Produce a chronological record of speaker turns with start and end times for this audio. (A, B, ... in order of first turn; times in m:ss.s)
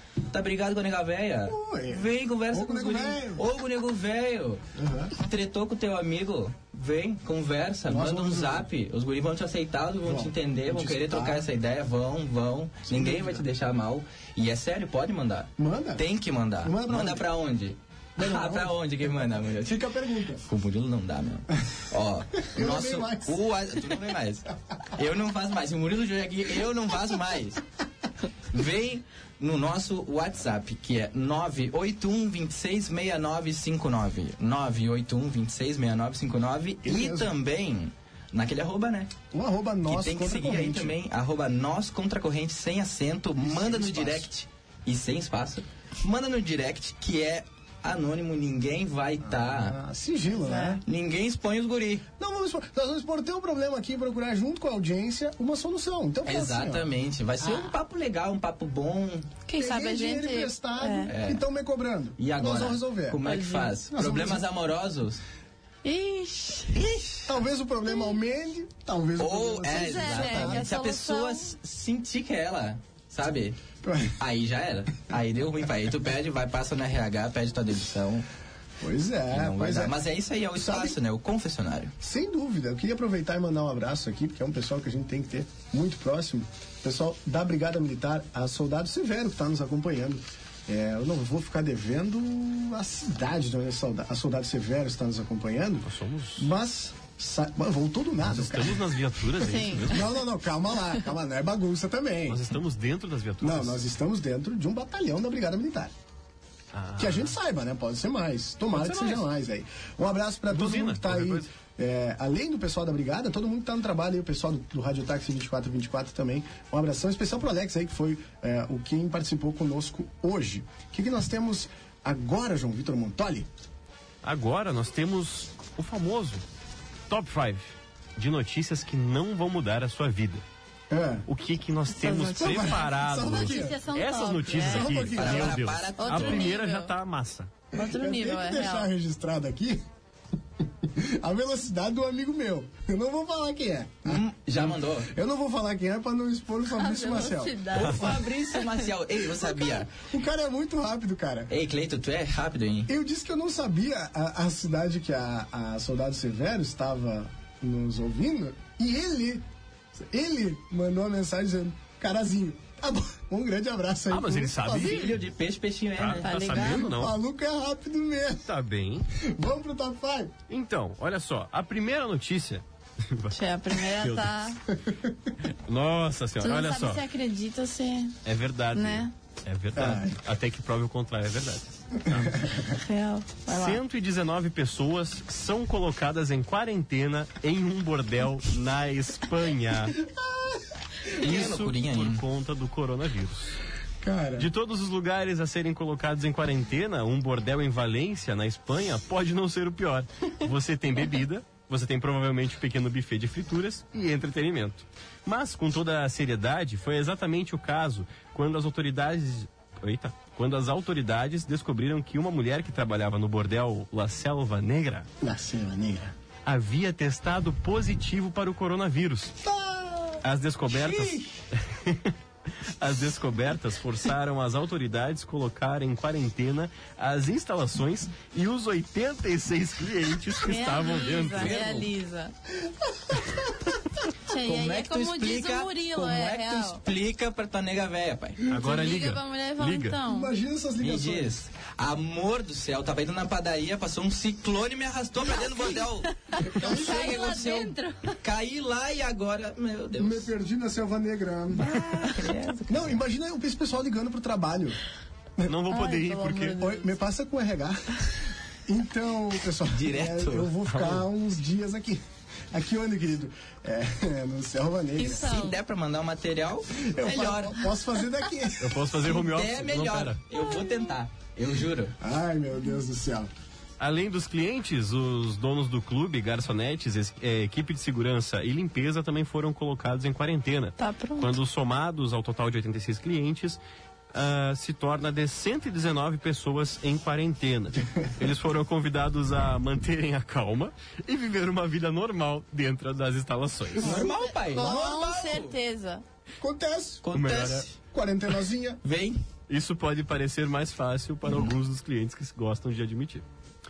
0:00.3-0:19.8 A
0:01.5-0:03.4 B
0:04.7-0:05.1 B
0:07.9-0:08.7 B
0:10.0-0:11.5 B
0:12.8-0:13.4 B
0:15.6-0:16.0 B
0:16.6-0:17.3 B
0:18.2-0:20.4 B
0:20.4-0:27.6 A
0:22.4-0:23.4 B
0:28.5-0:39.1 A
0:36.8-0:37.3 B
0:39.3-0:41.0 B
0:39.9-0:49.8 A
0:43.4-0:44.3 B
0:49.2-0:50.8 B
0:50.4-0:50.8 C
0:50.8-0:52.0 A
0:52.2-0:56.9 B
0:56.2-0:59.4 A
0:57.4-0:57.7 C
0:59.5-1:01.1 C
0:59.5-1:03.2 B
1:01.1-1:01.4 A
1:02.2-1:05.2 A
1:03.2-1:03.8 C
1:03.9-1:04.4 B
1:05.8-1:06.8 C
1:06.7-1:07.3 A
1:07.2-1:10.7 B
1:09.2-1:13.6 A
1:09.7-1:11.5 C
1:13.8-1:14.1 B
1:14.2-1:18.2 A
1:18.8-1:20.0 B
1:19.3-1:21.9 A
1:20.6-1:21.0 B
1:22.0-1:38.8 B
1:35.8-1:36.5 D
1:38.2-1:40.2 D
1:39.4-1:40.0 C
1:39.9-1:42.4 B
1:42.3-1:43.8 D
1:43.4-1:45.9 B
1:46.7-1:47.3 D
1:47.0-2:03.5 B
1:48.7-1:49.2 D
1:50.5-1:51.5 D
2:04.2-2:06.4 D
2:07.1-2:07.6 D
2:08.2-2:10.4 D
2:10.9-2:11.2 B
2:11.3-2:17.5 D
2:12.0-2:14.9 C
2:12.2-2:13.8 B
2:14.5-2:15.7 B
2:15.1-2:16.5 A
2:16.0-2:16.9 C
2:17.7-2:19.8 B
2:17.7-2:18.9 C
2:20.8-2:27.9 B
2:24.0-2:25.1 A
2:26.7-2:28.9 C
2:27.7-2:29.9 A
2:29.6-2:31.5 B
2:31.5-2:32.9 A
2:32.9-2:45.1 B
2:44.1-2:45.2 D
2:44.7-2:46.3 A
2:46.0-2:47.2 D
2:46.2-2:46.9 C
2:46.5-2:48.5 B
2:48.4-2:49.1 D
2:49.1-2:50.3 B
2:50.5-2:54.3 D
2:53.3-2:54.6 C
2:54.8-2:55.3 B
2:55.4-2:57.0 D
2:56.4-2:58.1 C
2:58.2-3:02.6 D
2:58.7-2:59.1 C
2:59.8-3:00.2 B
3:02.0-3:02.7 B
3:02.7-3:03.8 C
3:03.5-3:10.0 D
3:10.0-3:10.6 B
3:11.1-3:12.2 A
3:11.1-3:13.6 D
3:14.0-3:14.5 B
3:14.4-3:35.1 D
3:35.2-3:36.1 B
3:36.4-3:39.4 D
3:39.4-3:40.2 B
3:40.2-3:42.1 D
3:40.7-3:41.3 A
3:42.8-3:51.6 D
3:50.4-3:52.3 C
3:51.3-3:51.9 A
3:52.6-3:53.7 B
3:54.2-3:56.8 C
3:54.4-3:58.4 A
3:58.5-4:00.0 D
3:58.5-4:00.3 C
4:00.0-4:01.3 B
4:00.8-4:10.3 A
4:05.4-4:05.7 C
4:06.3-4:08.2 C
4:06.4-4:07.3 B
4:10.0-4:11.8 B
4:11.5-4:13.0 A
4:12.7-4:14.8 B
4:15.4-4:16.6 D
4:15.7-4:16.9 C
4:16.5-4:25.4 B
4:19.7-4:20.5 A
4:20.6-4:21.0 D
4:25.0-4:25.6 C
4:25.1-4:27.6 A
4:26.7-4:28.8 B
4:28.6-4:30.2 D
4:29.0-4:31.9 A
4:30.4-4:30.7 C
4:32.0-4:33.3 B
4:33.8-4:43.6 D
4:40.8-4:41.3 C
4:44.1-4:54.0 D
4:53.8-4:55.2 B
4:53.8-4:55.6 A
4:53.8-4:56.0 C
4:56.4-4:57.0 B
4:57.0-4:57.7 A
4:57.1-4:57.6 D
4:57.9-4:58.8 B
4:58.8-4:59.2 A
4:59.5-5:03.2 D